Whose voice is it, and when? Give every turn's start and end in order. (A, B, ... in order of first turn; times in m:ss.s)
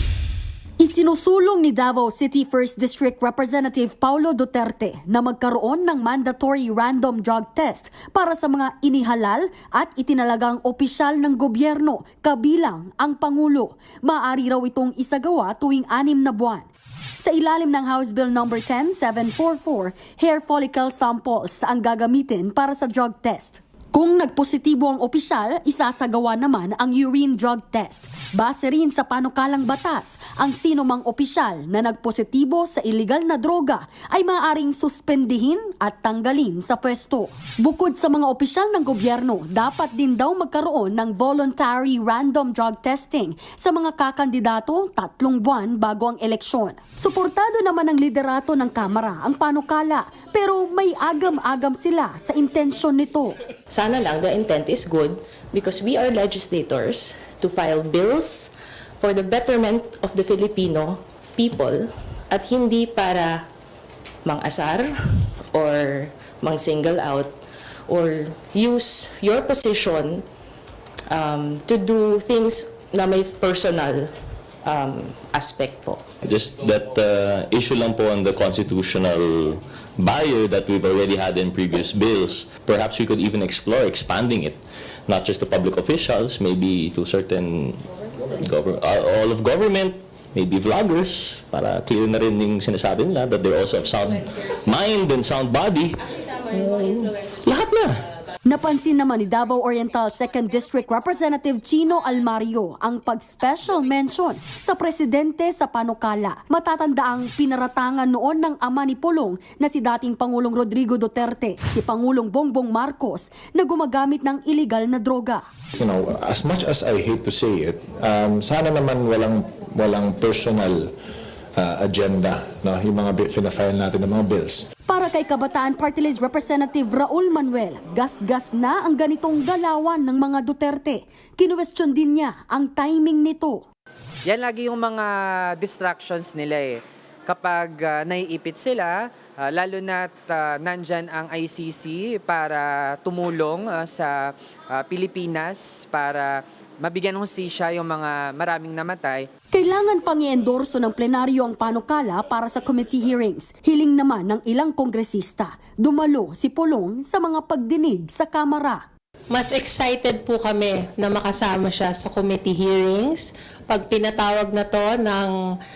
0:00.8-0:16.7 A
0:17.2-0:53.4 A
0:53.7-1:03.5 B
1:04.2-1:07.3 B
1:07.9-1:10.2 B
1:11.1-1:16.0 B
1:16.2-1:36.0 C
1:36.5-1:38.0 C
1:38.4-1:55.4 A
1:55.8-2:00.9 D
2:01.6-2:04.6 D
2:04.9-2:13.6 A
2:14.2-2:29.3 E
2:29.5-2:38.8 A
2:39.3-2:45.4 F